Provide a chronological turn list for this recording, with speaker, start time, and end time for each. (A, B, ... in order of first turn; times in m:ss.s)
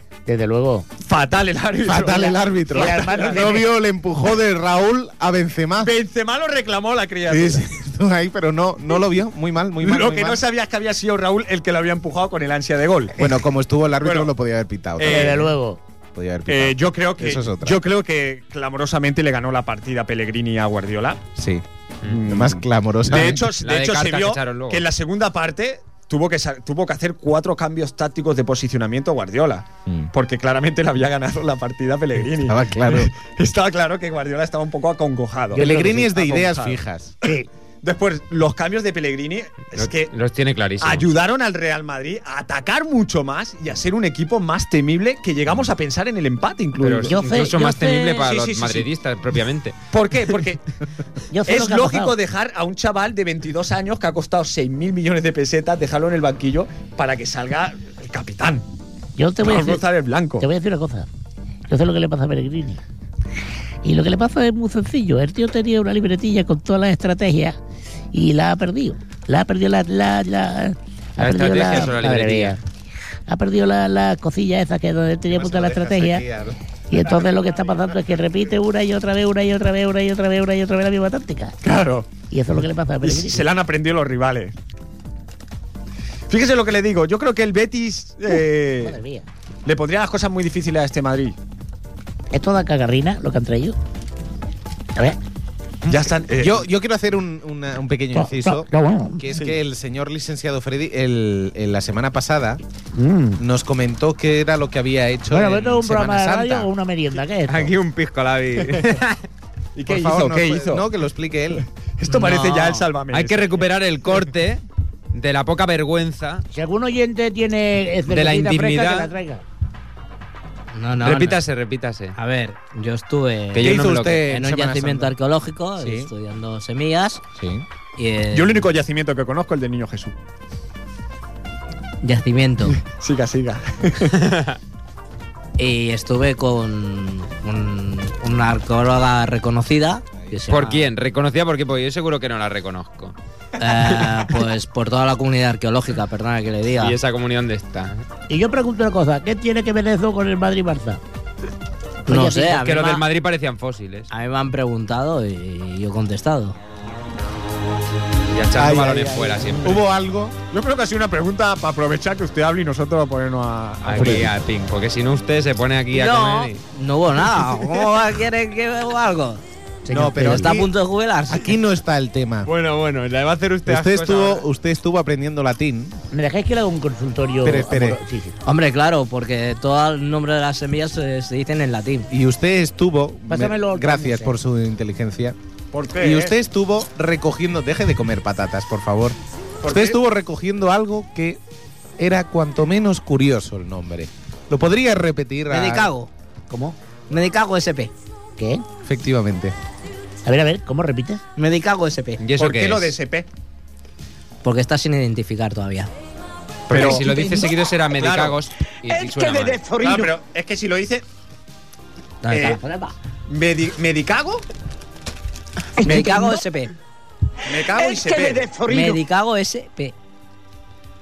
0:00.2-0:00.9 A
0:01.0-0:03.5 B
0:01.8-0:05.9 C
0:02.7-0:03.7 A
0:05.8-0:07.7 B
0:07.3-0:10.4 C
0:09.8-0:13.2 B
0:13.2-0:15.5 C
0:14.0-0:14.3 B
0:15.0-0:15.5 B
0:15.0-0:15.8 A
0:16.1-0:17.8 C
0:16.5-0:21.2 B
0:21.4-0:21.6 C
0:22.0-0:36.8 B
0:22.2-0:23.5 C
0:23.2-0:24.8 D
0:32.4-0:33.1 C
0:35.5-0:36.1 A
0:35.5-0:37.1 C
0:37.8-0:40.1 B
0:39.7-0:41.1 D
0:40.8-0:48.9 B
0:46.8-0:49.8 D
0:47.0-0:48.1 A
0:49.9-0:50.6 B
0:51.3-0:52.1 A
0:51.4-0:58.6 B
0:59.2-0:59.8 A
0:59.4-1:00.5 B
1:00.4-1:01.1 A
1:01.7-1:02.8 A
1:03.8-1:07.6 A
1:08.1-1:12.6 A
1:11.2-1:12.6 D
1:13.3-1:16.2 A
1:15.3-1:16.6 C
1:16.9-1:21.6 A
1:21.6-1:22.1 B
1:22.3-1:23.4 A
1:23.0-1:24.5 B
1:26.3-1:29.0 B
1:28.8-1:29.3 A
1:29.6-1:31.4 B
1:32.3-1:33.8 A
1:35.9-1:36.6 B
1:35.9-1:42.6 C
1:38.1-1:39.3 A
1:42.9-1:43.4 A
1:43.4-1:46.7 C
1:45.3-1:47.7 A
1:47.5-1:49.2 D
1:49.8-1:50.8 B
1:49.9-1:51.6 C
1:52.0-1:53.6 B
1:52.0-1:52.9 E
1:53.1-1:56.4 D
1:56.5-1:59.4 A
1:58.1-1:59.1 D
2:00.7-2:01.4 E
2:01.0-2:02.1 D
2:02.1-2:07.2 E
2:03.5-2:04.3 D
2:03.6-2:05.2 C
2:05.8-2:06.1 C
2:07.4-2:07.6 C
2:08.0-2:08.7 E
2:08.3-2:10.1 B
2:12.0-2:12.8 E
2:12.7-2:14.3 B
2:14.2-2:14.5 D
2:15.6-2:20.9 E
2:20.5-2:23.1 D
2:23.6-2:27.0 E
2:26.8-2:28.0 D
2:28.3-2:31.0 A
2:32.1-2:33.0 E
2:32.1-2:32.5 A
2:32.3-2:34.1 D
2:34.1-2:36.6 E
2:38.3-2:39.8 D
2:38.6-2:40.4 C
2:40.5-2:44.3 B
2:43.8-2:46.6 D
2:44.0-2:44.3 C
2:45.9-2:49.4 E
2:49.8-2:50.6 A
2:49.9-2:50.7 C
2:50.2-2:51.6 E
2:51.3-2:52.5 C
2:52.4-2:54.4 D
2:53.6-2:56.0 C
2:56.1-2:58.4 A
2:57.4-2:58.0 C
2:58.4-3:02.1 E
3:02.1-3:05.4 C
3:03.3-3:04.4 A
3:05.7-3:06.3 B
3:06.0-3:11.4 C
3:09.6-3:10.0 B
3:12.0-3:15.9 C
3:15.5-3:16.1 E
3:16.5-3:16.8 A
3:17.1-3:17.9 E
3:18.4-3:18.6 A
3:18.8-3:19.5 C
3:20.2-3:21.2 A
3:21.4-3:22.2 E
3:22.2-3:22.9 D
3:22.4-3:23.3 B
3:24.4-3:25.9 E
3:26.7-3:29.6 D
3:26.7-3:27.4 B
3:27.9-3:28.4 B
3:29.8-3:31.0 B
3:32.2-3:32.9 E
3:32.3-3:32.6 B
3:33.3-3:34.4 B
3:35.8-3:36.7 E
3:37.4-3:38.5 B
3:38.6-3:39.9 E